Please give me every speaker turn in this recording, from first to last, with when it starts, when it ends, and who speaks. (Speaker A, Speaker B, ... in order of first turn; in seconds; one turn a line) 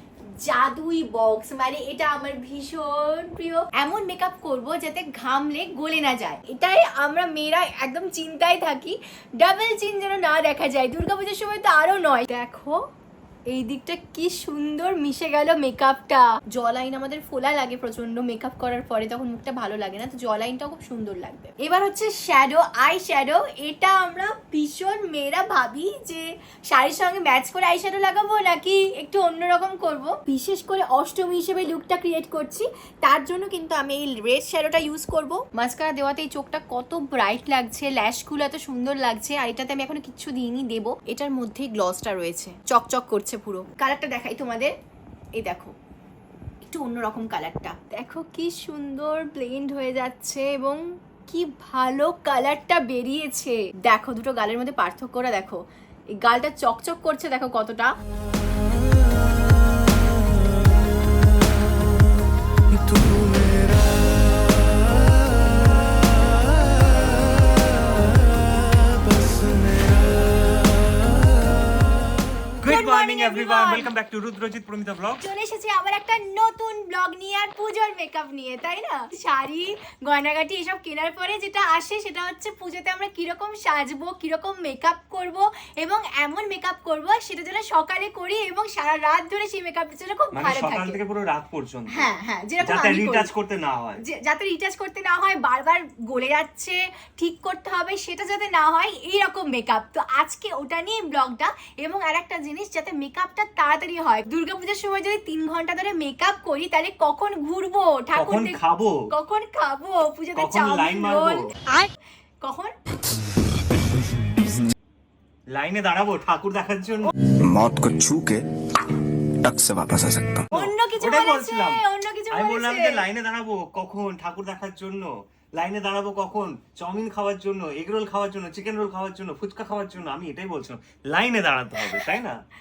Speaker A: 0.4-12.8
Speaker A: 13.5-44.7
Speaker A: 45.4-45.7
Speaker A: 46.6-55.6
Speaker A: 56.2-57.9
Speaker B: 72.6-75.2
Speaker A: 72.7-73.9
Speaker A: 75.2-91.0
Speaker B: 90.3-92.1
Speaker A: 91.9-93.3
Speaker B: 92.6-94.0
Speaker A: 94.0-111.8
Speaker B: 108.1-109.0
Speaker B: 110.3-111.4
Speaker A: 112.4-112.7
Speaker B: 115.5-117.1
Speaker C: 117.3-120.5
Speaker B: 120.5-132.4
Speaker A: 120.5-123.0